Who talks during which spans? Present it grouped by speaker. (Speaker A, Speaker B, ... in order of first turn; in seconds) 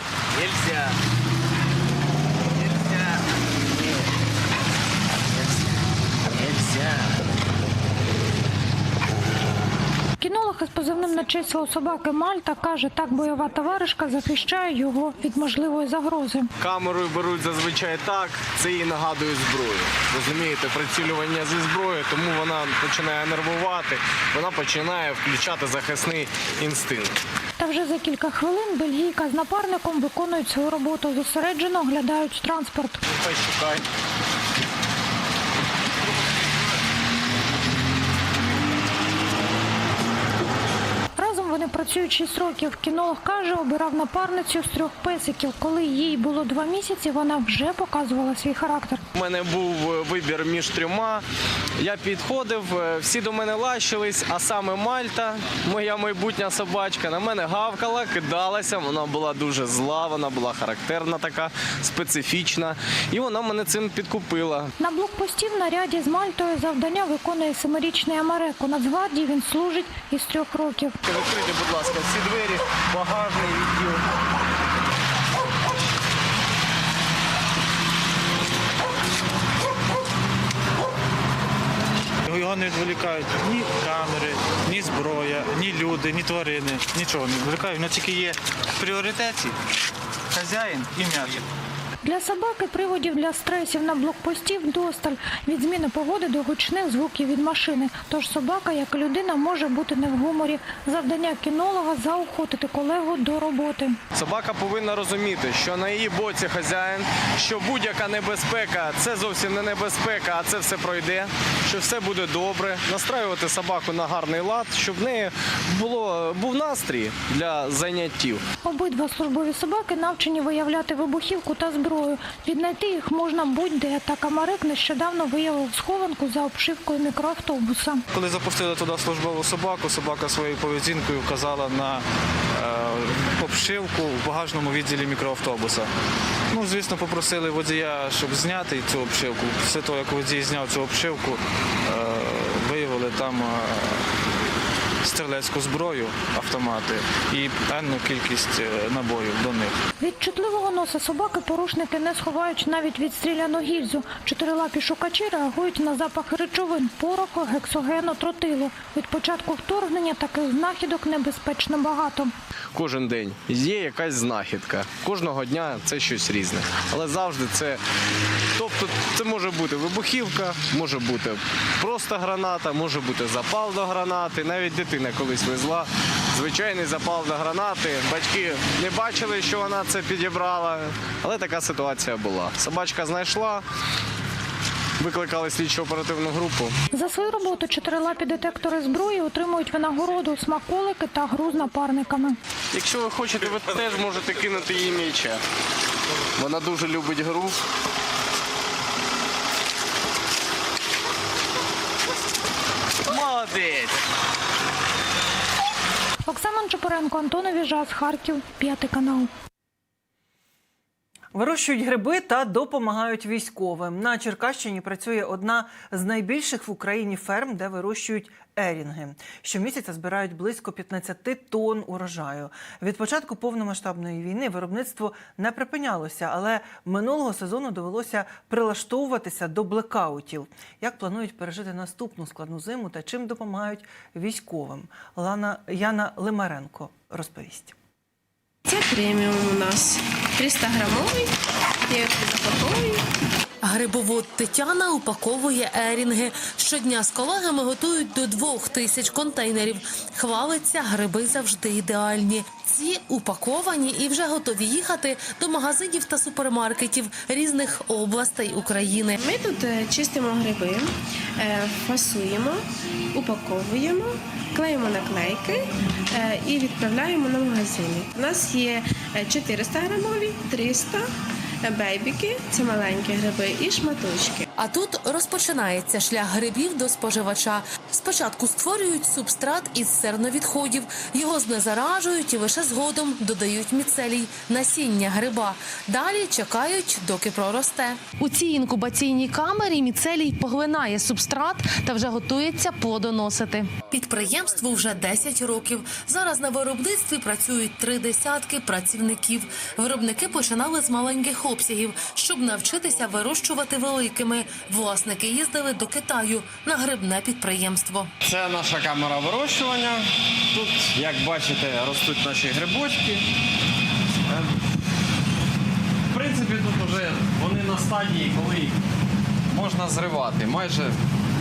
Speaker A: 0.4-0.8, 6.4-6.9, 16.6-27.2, 33.1-33.8, 49.1-51.2, 51.8-64.7, 71.0-74.0, 104.1-118.4, 162.7-167.8, 168.6-183.7, 185.0-186.7, 192.7-195.4, 196.4-197.6, 203.1-204.0
Speaker B: 10.2-16.5, 27.6-33.0, 41.2-49.0, 64.8-71.0, 92.0-104.0, 118.6-128.0, 150.0-162.3, 186.9-192.4, 206.2-209.3
Speaker C: 82.3-89.6, 90.3-91.4, 128.1-135.9, 136.5-144.1, 145.0-149.8
Speaker D: 211.3-237.7
Speaker E: 238.7-241.3, 242.0-243.0, 259.4-262.6, 263.2-265.6, 266.1-271.0, 271.6-274.4
Speaker F: 243.6-259.2, 274.6-308.1
Speaker G: 308.2-313.3, 314.3-314.5, 316.1-318.8, 319.5-321.0